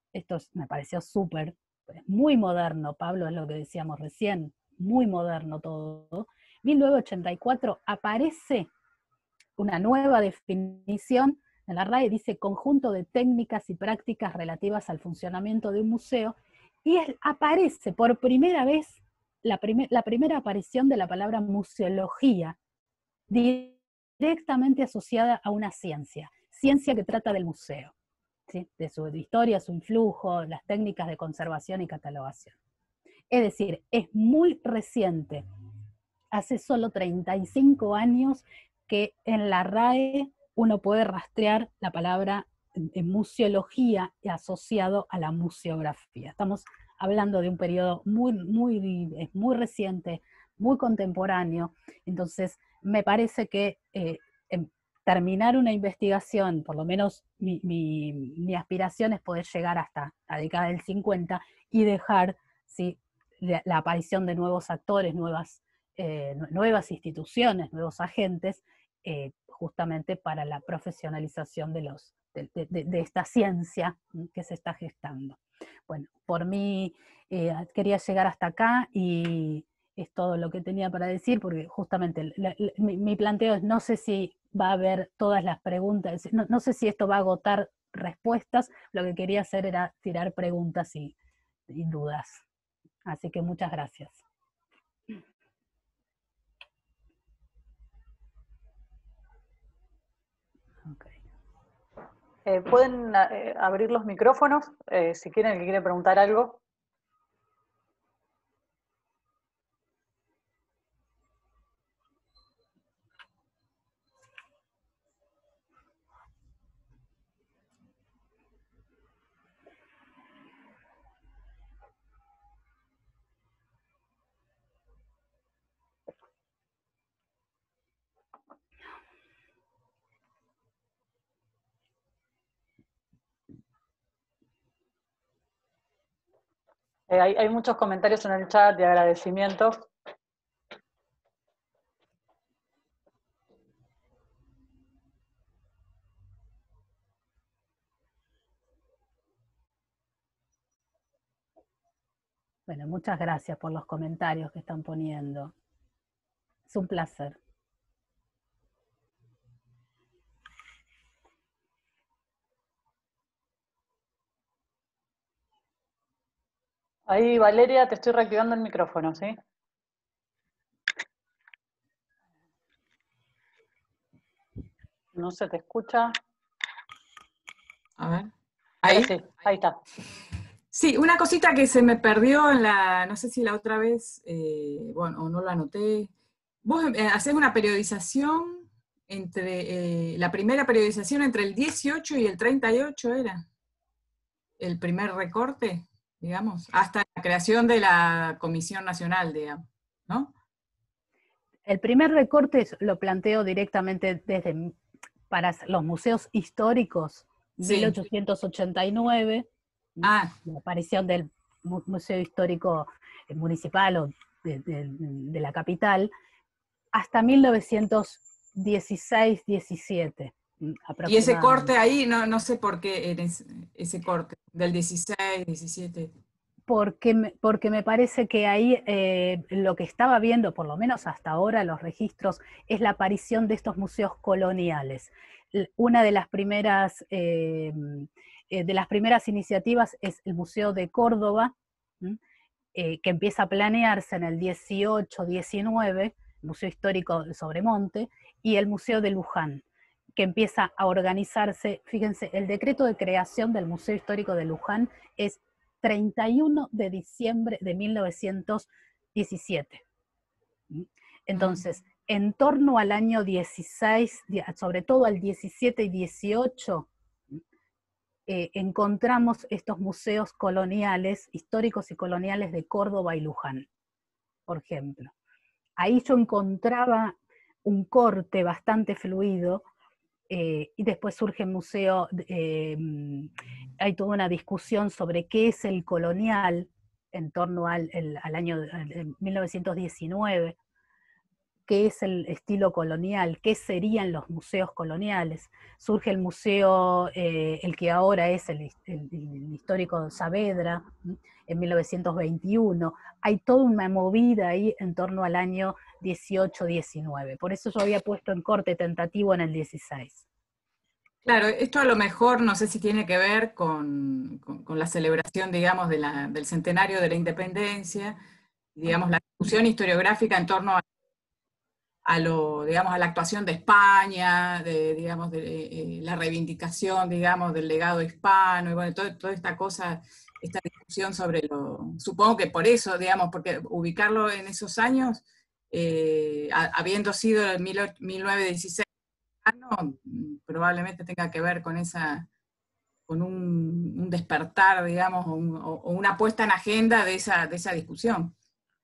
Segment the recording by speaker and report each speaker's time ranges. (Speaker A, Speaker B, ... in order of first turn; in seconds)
Speaker A: 0.1-8.7, 9.6-22.6, 23.3-27.9, 28.5-32.6, 33.3-35.5, 36.3-91.1, 91.7-92.5, 93.0-94.2, 100.9-101.2, 152.7-155.5, 156.7-157.4, 201.7-204.8, 205.3-216.1, 216.9-221.7, 226.7-242.2, 242.7-249.6, 250.2-259.8, 260.7-267.4, 268.3-273.7, 274.5-275.1, 275.8-279.6, 280.3-290.6, 291.7-310.2
Speaker B: 102.5-106.6, 137.1-139.9, 167.1-169.4, 175.1-176.2, 178.9-179.8
Speaker C: 178.0-178.3, 178.8-179.1, 180.7-186.1, 186.6-193.4, 194.6-200.3, 207.6-207.9, 210.0-210.3, 221.1-226.1, 311.2-318.2, 318.8-320.8, 322.1-338.9, 339.4-342.3, 343.1-348.3